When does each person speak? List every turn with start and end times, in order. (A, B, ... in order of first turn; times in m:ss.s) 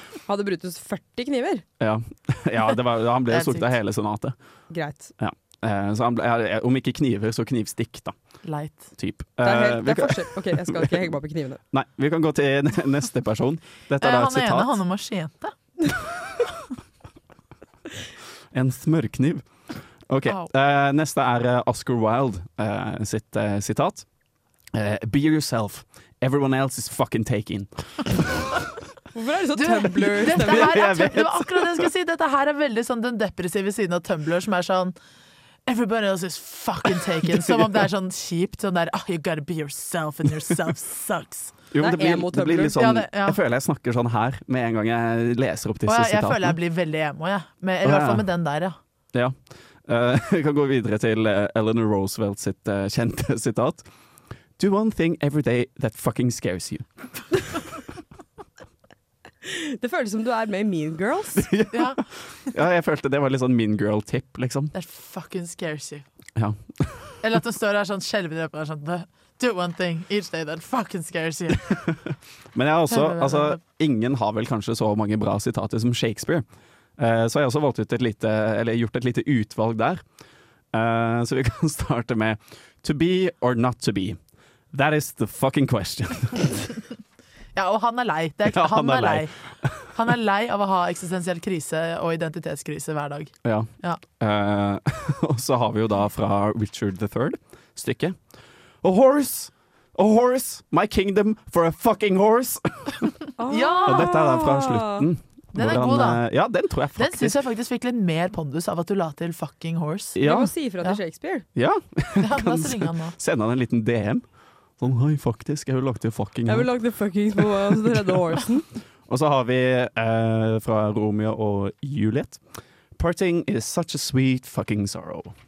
0:00.3-0:01.6 A
0:01.8-0:04.4 B
0:03.3-0:03.7 C
0:04.7-0:05.1 A
0:05.2-0:08.2 B
0:08.4-0:08.9 C
0:09.0-0:11.1 B
0:09.4-0:11.6 A
0:11.7-0:14.8 B
0:14.0-0:15.9 C
0:18.5-0:19.5 B
0:20.1-0:24.1 B
0:24.7-0:28.2 B
0:29.1-0:31.0 A
0:29.6-0:35.0 C
0:30.3-0:31.9 B
0:35.7-0:41.6 C
0:37.2-0:37.9 B
0:41.7-0:46.6 B
0:41.8-0:42.8 A
0:42.8-0:43.4 C
0:45.9-0:48.8 C
0:47.8-0:48.3 B
0:49.1-0:53.8 B
0:54.6-0:56.9 B
0:59.4-1:01.5 A
1:01.4-1:04.7 B
1:01.7-1:02.0 C
1:04.7-1:06.1 C
1:06.4-1:07.2 B
1:07.2-1:11.8 C
1:12.6-1:16.4 B
1:12.9-1:13.6 C
1:17.0-1:20.0 B
1:20.7-1:24.2 B
1:24.7-1:26.7 B
1:27.6-1:29.4 C
1:28.5-1:29.8 B
1:29.9-1:34.0 C
1:33.4-1:38.2 B
1:38.8-1:43.1 B
1:43.4-1:45.1 A
1:43.5-1:44.1 C
1:43.8-1:47.4 B
1:45.5-1:46.2 C
1:47.0-1:50.2 C
1:50.2-1:50.5 B
1:50.2-1:51.4 A
1:51.6-1:54.2 B
1:52.2-1:53.2 C
1:54.8-1:56.7 B
1:56.5-1:58.6 A
1:57.4-1:58.2 B
1:59.1-2:02.4 B
2:03.0-2:05.4 B